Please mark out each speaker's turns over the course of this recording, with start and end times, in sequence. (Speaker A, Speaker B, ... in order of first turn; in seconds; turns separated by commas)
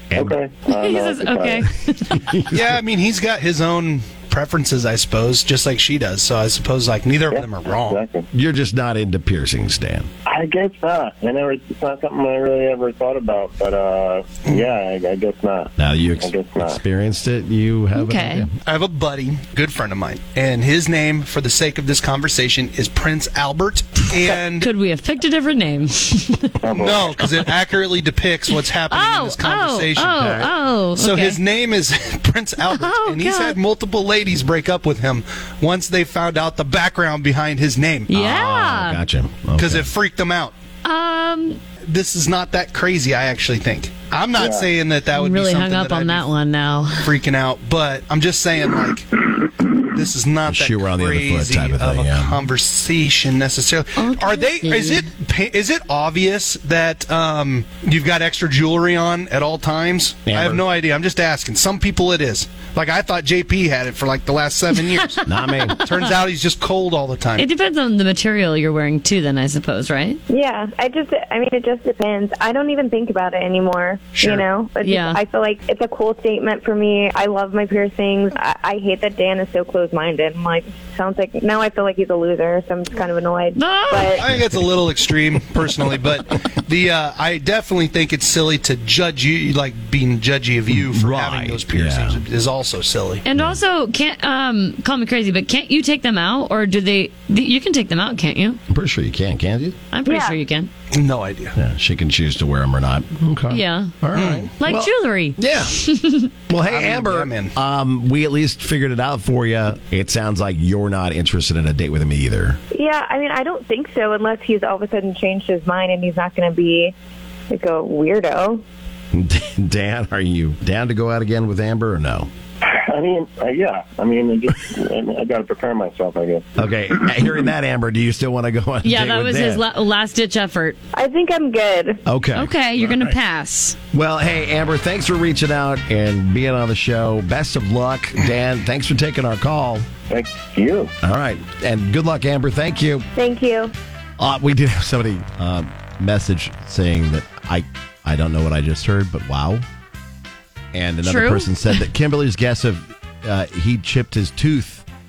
Speaker A: 0.1-0.4, Speaker B: 0.1-1.6, Speaker C: 0.7-2.4, Speaker A: 2.2-2.8, Speaker D: 2.5-8.0, Speaker B: 7.3-8.3, Speaker A: 8.3-10.1, Speaker B: 10.2-16.8, Speaker A: 15.8-18.5, Speaker C: 17.9-18.5, Speaker D: 18.6-24.7, Speaker C: 24.6-26.6, Speaker B: 26.6-27.2, Speaker D: 26.7-30.4, Speaker C: 28.9-31.4, Speaker A: 30.2-30.5, Speaker D: 31.0-38.1, Speaker C: 32.7-33.6, Speaker C: 38.1-39.0, Speaker A: 38.1-39.9, Speaker D: 39.5-40.5, Speaker C: 40.8-41.6, Speaker D: 41.9-46.3, Speaker B: 44.4-44.7, Speaker C: 45.1-47.1, Speaker D: 47.0-49.2, Speaker D: 49.8-65.2, Speaker A: 50.5-52.4, Speaker C: 54.0-55.1, Speaker A: 60.2-60.6, Speaker C: 64.9-65.9, Speaker A: 65.2-65.8, Speaker D: 65.8-67.5, Speaker C: 67.4-70.2, Speaker E: 70.3-84.2, Speaker D: 74.2-74.5, Speaker C: 74.8-75.2, Speaker C: 83.5-84.2, Speaker D: 84.2-93.2, Speaker A: 84.2-84.6, Speaker A: 90.7-92.2, Speaker C: 93.2-98.6, Speaker A: 93.3-93.6, Speaker A: 98.7-99.8, Speaker C: 99.9-100.7, Speaker E: 100.0-100.4, Speaker D: 100.9-101.5, Speaker A: 101.5-105.8, Speaker C: 103.5-103.9, Speaker D: 104.1-104.5, Speaker C: 104.6-106.3, Speaker A: 106.5-112.6, Speaker D: 106.7-107.5, Speaker E: 112.7-116.9, Speaker E: 117.5-118.6, Speaker A: 119.1-122.3, Speaker B: 122.6-126.6, Speaker A: 126.6-129.6, Speaker C: 128.8-130.8, Speaker E: 130.9-132.0, Speaker A: 132.1-133.1, Speaker C: 132.3-133.8, Speaker A: 133.9-139.9, Speaker B: 140.1-140.9, Speaker A: 141.0-143.1, Speaker E: 143.1-143.7, Speaker A: 144.2-149.6, Speaker A: 150.7-154.8, Speaker C: 151.0-151.8